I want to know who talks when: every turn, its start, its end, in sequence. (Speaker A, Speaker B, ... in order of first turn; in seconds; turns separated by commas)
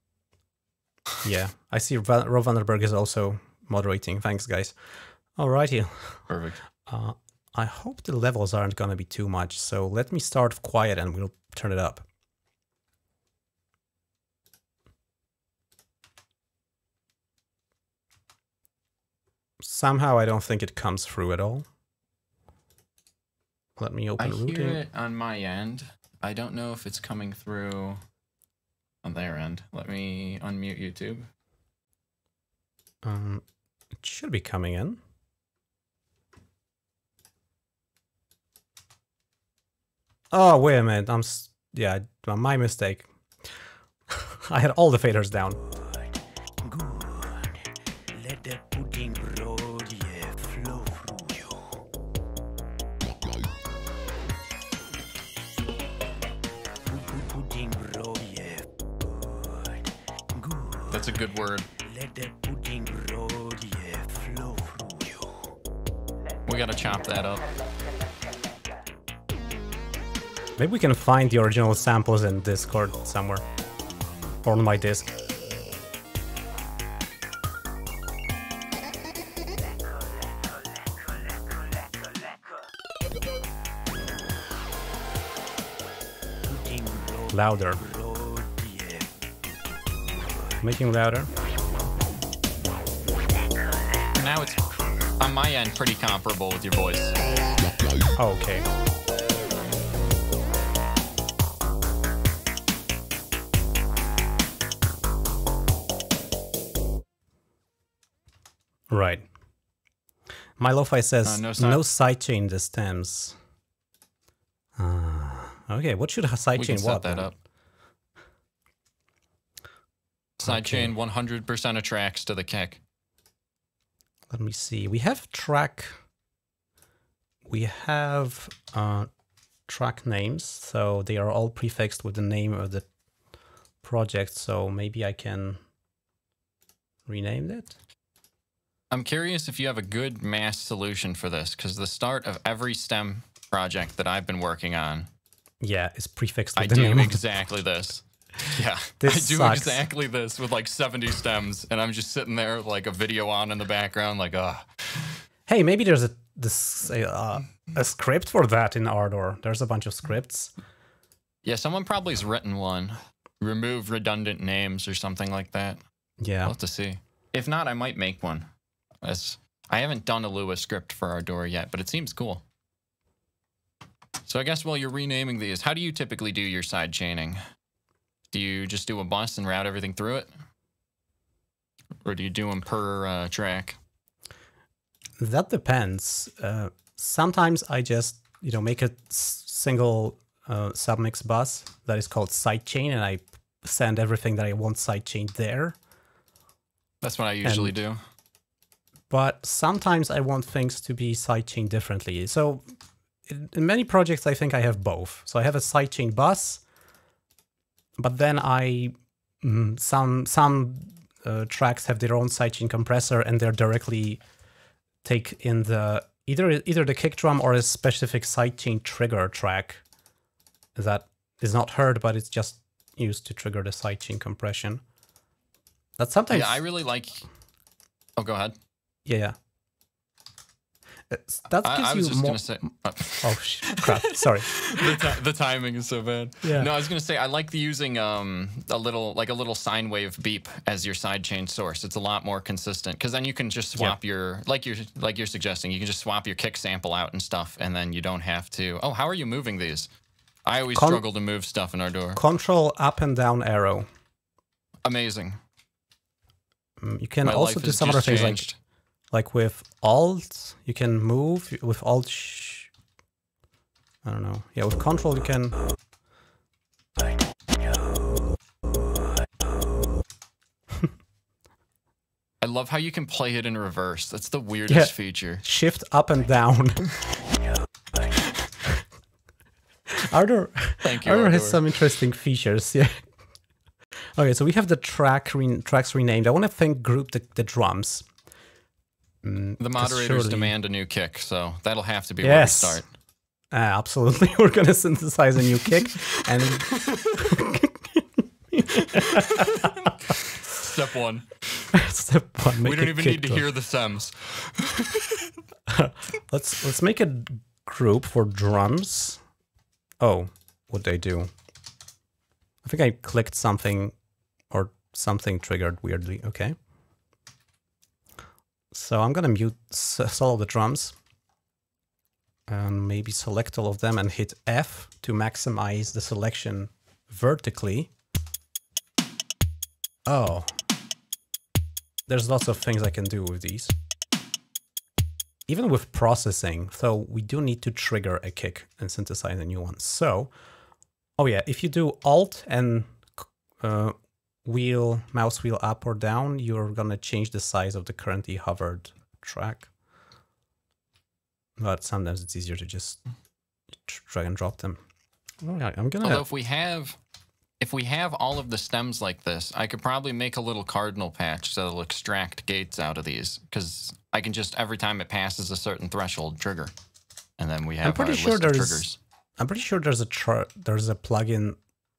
Speaker A: 1.2-6.3, Speaker B: 6.3-6.6, Speaker A: 6.8-12.0, Speaker A: 19.6-21.6, Speaker A: 23.8-24.8, Speaker B: 24.2-28.0, Speaker B: 29.0-31.3, Speaker A: 33.0-33.4, Speaker A: 34.0-35.0, Speaker A: 40.3-43.6, Speaker A: 44.1-45.6, Speaker C: 45.8-46.1, Speaker C: 46.6-51.8, Speaker C: 56.9-61.2, Speaker B: 60.9-61.7, Speaker C: 61.8-65.5, Speaker B: 66.5-67.4, Speaker A: 70.6-73.4, Speaker A: 74.4-75.1, Speaker C: 80.8-82.2, Speaker C: 86.4-89.3, Speaker A: 87.3-87.8, Speaker C: 90.3-90.5, Speaker A: 90.6-91.3, Speaker B: 94.1-94.7, Speaker B: 95.2-97.1, Speaker A: 98.2-98.7, Speaker A: 108.9-109.2, Speaker A: 110.6-113.4, Speaker B: 111.2-111.8, Speaker A: 114.8-117.3, Speaker B: 116.5-117.3, Speaker B: 120.4-122.8, Speaker A: 120.4-120.9, Speaker A: 124.3-126.0, Speaker A: 127.5-129.1, Speaker A: 129.7-132.8, Speaker A: 133.8-135.6, Speaker A: 137.1-137.8, Speaker B: 138.9-145.1, Speaker A: 145.6-147.2, Speaker B: 146.6-155.2, Speaker A: 149.0-149.8, Speaker A: 155.5-160.5, Speaker B: 161.4-165.8, Speaker A: 166.2-166.5, Speaker B: 166.4-168.5, Speaker B: 169.0-172.4, Speaker B: 174.2-177.4, Speaker B: 178.3-180.3, Speaker B: 182.0-183.8, Speaker A: 185.2-195.8, Speaker B: 197.0-198.0, Speaker A: 197.4-197.7, Speaker A: 199.1-202.7, Speaker A: 203.2-206.6, Speaker A: 208.0-214.2, Speaker A: 215.0-219.8, Speaker A: 220.7-224.8, Speaker A: 226.0-226.6, Speaker B: 226.3-227.3, Speaker B: 228.2-228.6, Speaker A: 229.1-229.3, Speaker A: 231.1-232.5, Speaker B: 231.6-249.9, Speaker A: 233.2-235.2, Speaker A: 236.4-236.7, Speaker B: 250.4-252.2, Speaker A: 250.7-251.0, Speaker A: 252.1-253.9, Speaker B: 254.8-255.4, Speaker A: 256.8-258.4, Speaker B: 257.2-258.6, Speaker A: 259.1-262.7, Speaker A: 264.0-265.6, Speaker B: 272.4-275.4, Speaker A: 274.7-276.9, Speaker A: 279.9-283.0, Speaker B: 280.8-281.6, Speaker A: 284.2-288.1, Speaker A: 289.2-290.5, Speaker B: 289.6-292.9, Speaker A: 292.2-292.8, Speaker A: 293.5-299.7, Speaker B: 296.6-297.1, Speaker B: 299.1-301.7, Speaker A: 301.7-303.5, Speaker B: 302.6-305.2, Speaker A: 305.7-309.2, Speaker A: 310.0-311.3, Speaker A: 312.6-313.9, Speaker A: 314.5-316.6, Speaker A: 318.7-320.9, Speaker A: 322.5-327.9, Speaker A: 330.1-330.5, Speaker A: 332.1-333.7, Speaker A: 335.5-340.3, Speaker A: 341.2-349.7, Speaker A: 351.6-353.0, Speaker A: 353.8-354.8, Speaker A: 355.4-356.2, Speaker B: 356.0-357.0, Speaker B: 357.6-366.7, Speaker B: 367.4-369.0, Speaker A: 367.8-368.9, Speaker A: 369.4-371.6